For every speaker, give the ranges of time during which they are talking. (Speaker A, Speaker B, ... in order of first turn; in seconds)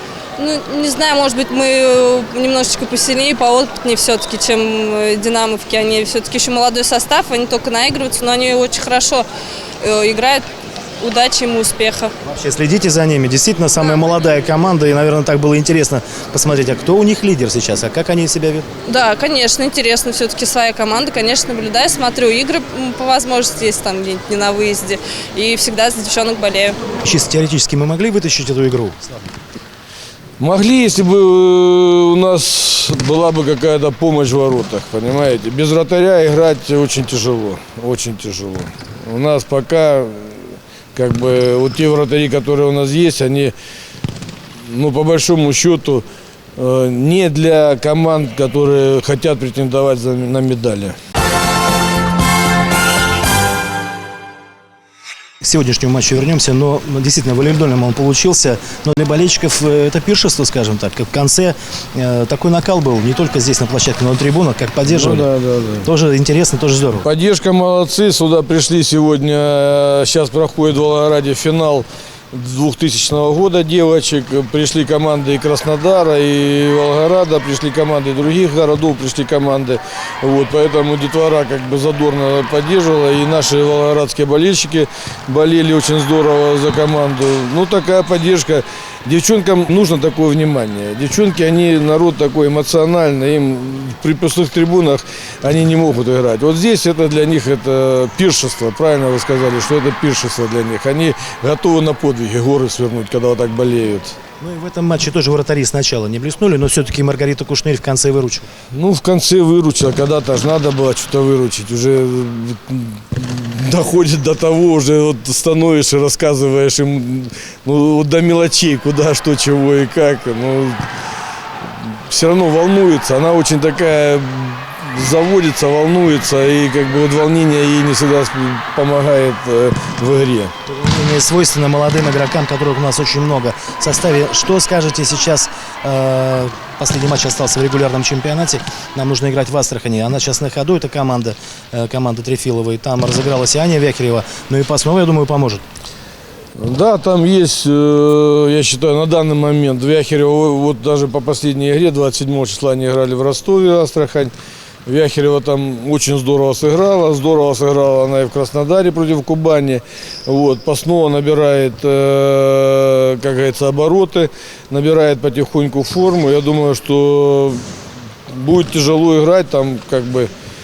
Speaker A: 0.4-9.3, 9.8-10.4, 11.0-12.1, 18.9-26.8
Speaker B: 12.2-18.7, 27.0-29.3, 55.4-65.3, 65.8-67.1, 104.4-108.5, 130.7-145.6
Speaker C: 30.4-43.5, 44.7-46.0, 46.6-51.0, 64.9-65.9, 67.0-104.2, 108.7-120.8, 122.1-130.5, 146.6-154.3, 154.9-167.6, 168.3-170.3